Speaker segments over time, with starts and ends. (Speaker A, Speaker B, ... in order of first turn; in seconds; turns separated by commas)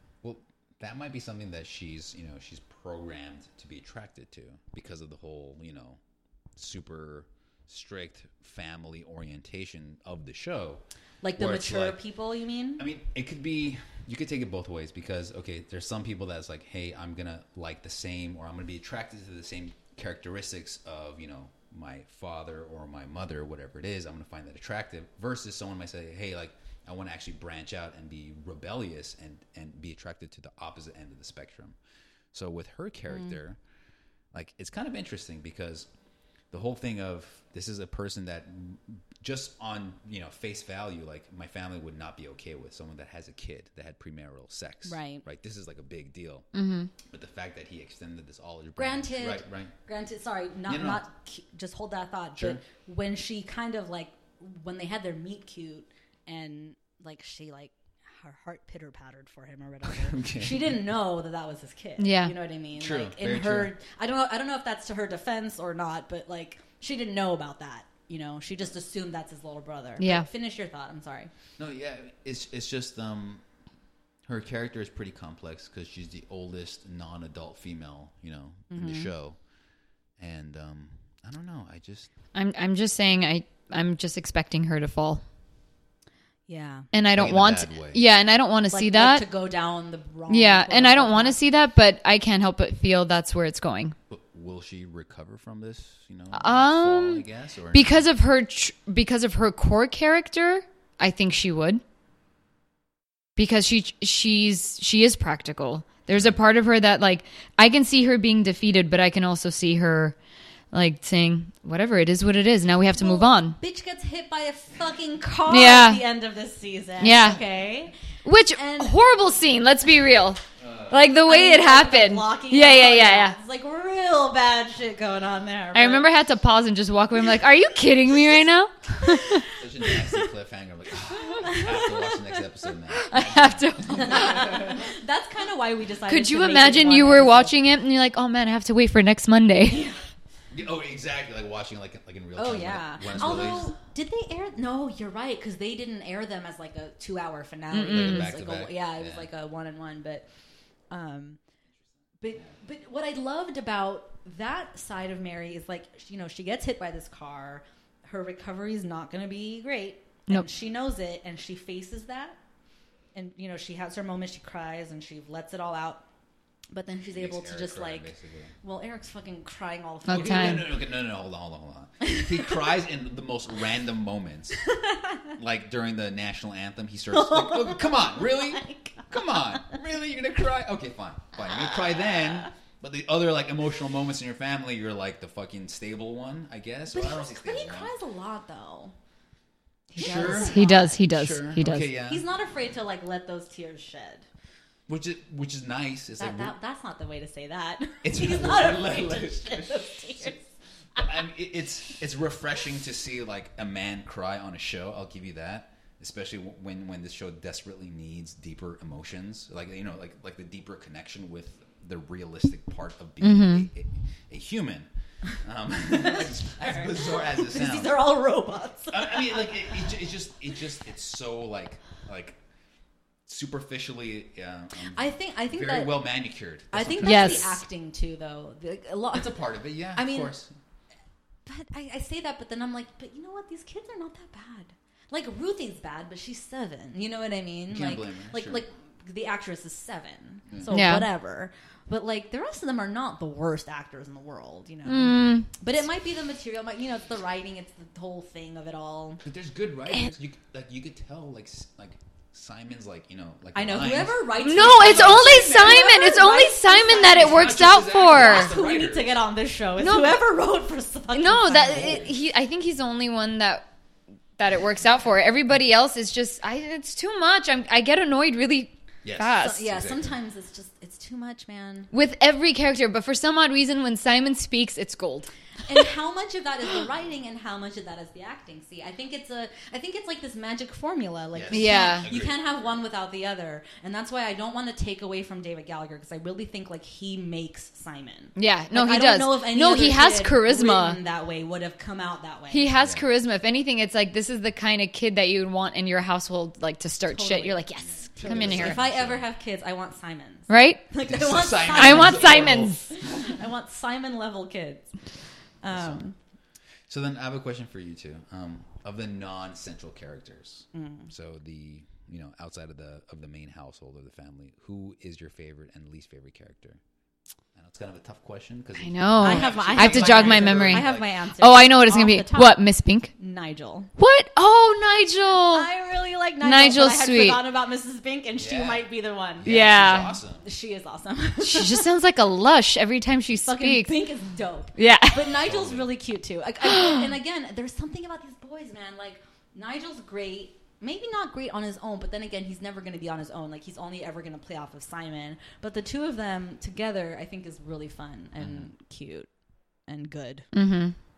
Speaker A: 0.2-6.0, Speaker A: 6.5-10.8, Speaker B: 11.2-12.8, Speaker A: 11.3-12.0, Speaker A: 12.8-31.8, Speaker A: 32.3-33.6, Speaker A: 34.3-35.9, Speaker A: 36.5-46.5, Speaker B: 44.8-45.2, Speaker C: 46.5-46.9, Speaker A: 47.0-49.7, Speaker B: 48.8-71.3, Speaker A: 50.7-51.0, Speaker A: 52.4-52.6, Speaker A: 59.8-60.7, Speaker C: 62.0-62.3, Speaker A: 62.8-63.7, Speaker C: 70.0-70.2, Speaker A: 71.6-73.4, Speaker A: 74.2-79.4, Speaker B: 78.7-79.1, Speaker A: 80.2-82.1, Speaker C: 82.3-85.2, Speaker B: 86.5-86.9, Speaker C: 86.9-89.2, Speaker A: 87.1-88.0, Speaker B: 88.7-91.4, Speaker C: 90.3-93.9, Speaker A: 94.1-98.1, Speaker C: 96.3-101.8, Speaker C: 103.4-110.2, Speaker A: 106.1-106.4, Speaker C: 110.7-113.6, Speaker B: 112.9-117.9, Speaker C: 115.5-116.0, Speaker C: 117.0-117.4, Speaker C: 118.2-123.4, Speaker B: 118.5-119.0, Speaker A: 120.6-121.2, Speaker B: 121.2-126.1, Speaker C: 125.7-129.5, Speaker B: 128.9-129.5, Speaker A: 129.3-134.7, Speaker B: 131.3-131.9, Speaker C: 132.9-134.5, Speaker B: 133.8-137.6, Speaker C: 136.1-139.8, Speaker B: 139.7-140.0, Speaker A: 140.5-143.7, Speaker B: 142.3-150.2, Speaker C: 147.7-148.3, Speaker A: 147.9-149.3, Speaker B: 150.9-151.4, Speaker B: 152.2-162.4, Speaker B: 163.1-166.0, Speaker B: 166.7-168.1, Speaker A: 167.1-168.6, Speaker B: 168.6-170.7, Speaker C: 170.1-170.7, Speaker A: 170.1-174.6, Speaker B: 174.7-175.3, Speaker A: 175.3-187.9, Speaker B: 177.1-179.7, Speaker B: 181.5-182.5, Speaker B: 186.9-188.9, Speaker B: 189.9-191.0, Speaker C: 189.9-191.9, Speaker A: 189.9-192.2, Speaker B: 192.1-194.2, Speaker A: 194.9-196.5, Speaker B: 196.2-201.2, Speaker A: 198.0-200.3, Speaker A: 200.9-218.0, Speaker C: 213.2-213.7, Speaker B: 215.9-219.7, Speaker A: 218.9-222.4, Speaker A: 223.3-227.6, Speaker B: 224.9-226.0, Speaker B: 226.7-229.4, Speaker C: 227.0-227.6, Speaker A: 229.1-230.5, Speaker B: 229.9-230.3, Speaker B: 231.4-249.2, Speaker A: 237.7-238.6, Speaker C: 240.7-241.1, Speaker C: 244.8-245.5, Speaker A: 249.2-256.0, Speaker B: 253.5-262.1, Speaker C: 254.4-258.5, Speaker A: 257.1-259.2, Speaker C: 259.8-260.2, Speaker C: 261.1-263.6, Speaker A: 261.7-262.1, Speaker C: 264.4-269.6, Speaker A: 269.0-270.1, Speaker B: 269.4-271.9, Speaker C: 271.9-275.3, Speaker B: 275.7-292.7, Speaker A: 281.3-282.7, Speaker C: 281.5-282.1, Speaker C: 288.4-291.0, Speaker C: 292.5-298.8, Speaker B: 297.1-304.9, Speaker A: 298.1-299.2, Speaker C: 300.5-300.8, Speaker A: 301.0-303.3, Speaker C: 301.7-302.8, Speaker B: 305.6-306.1, Speaker A: 305.7-306.0, Speaker A: 306.9-316.8, Speaker B: 310.7-311.1, Speaker A: 317.5-321.1, Speaker C: 318.8-323.1, Speaker B: 319.2-323.9, Speaker C: 324.0-325.7, Speaker B: 325.5-329.5, Speaker C: 326.4-327.4, Speaker A: 328.4-328.9, Speaker A: 329.4-330.4, Speaker C: 329.4-330.1, Speaker B: 330.4-331.9, Speaker C: 331.4-334.1, Speaker B: 333.4-349.3, Speaker C: 334.7-335.4, Speaker A: 335.4-335.9, Speaker C: 336.6-337.1, Speaker A: 348.4-348.7, Speaker B: 349.9-350.5, Speaker C: 350.5-350.9